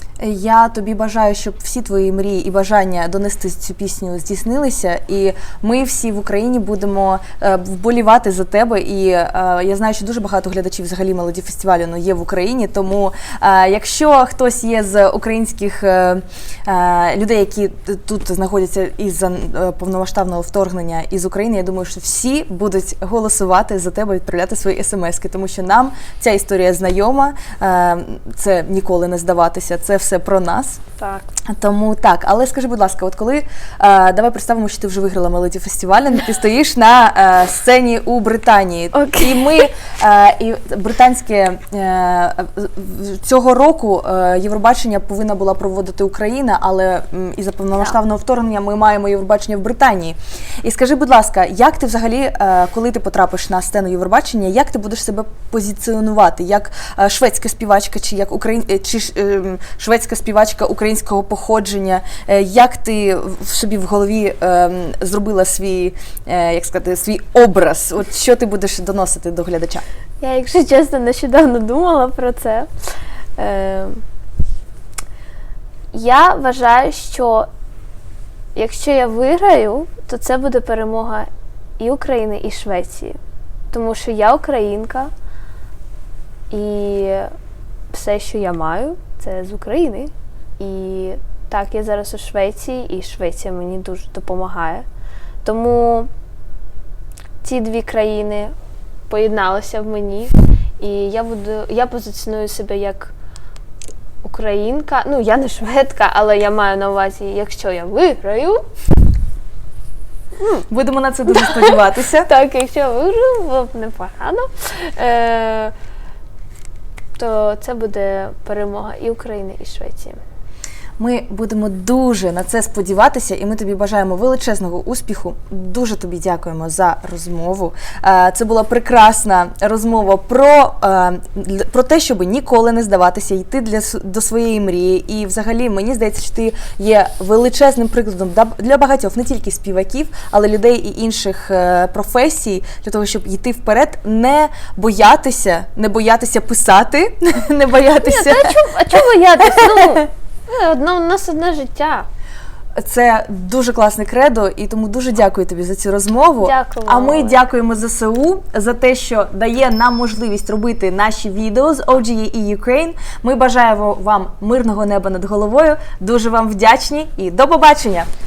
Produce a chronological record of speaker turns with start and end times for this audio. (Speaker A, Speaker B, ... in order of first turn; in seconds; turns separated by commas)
Speaker A: 0.2-30.8, Speaker B: 31.0-31.3, Speaker A: 31.5-69.8, Speaker B: 38.9-39.7, Speaker B: 70.2-74.0, Speaker B: 75.9-77.5, Speaker B: 78.5-83.2, Speaker B: 83.7-85.1, Speaker B: 86.5-87.3, Speaker B: 87.9-94.8, Speaker B: 95.4-96.1, Speaker B: 97.4-98.5, Speaker B: 99.1-103.1, Speaker B: 104.2-108.7, Speaker B: 110.4-110.7, Speaker A: 110.7-112.3, Speaker B: 111.3-115.7, Speaker B: 117.2-120.2, Speaker A: 121.0-148.6, Speaker B: 148.0-152.1, Speaker A: 149.4-150.0, Speaker A: 152.8-168.1, Speaker B: 156.4-157.4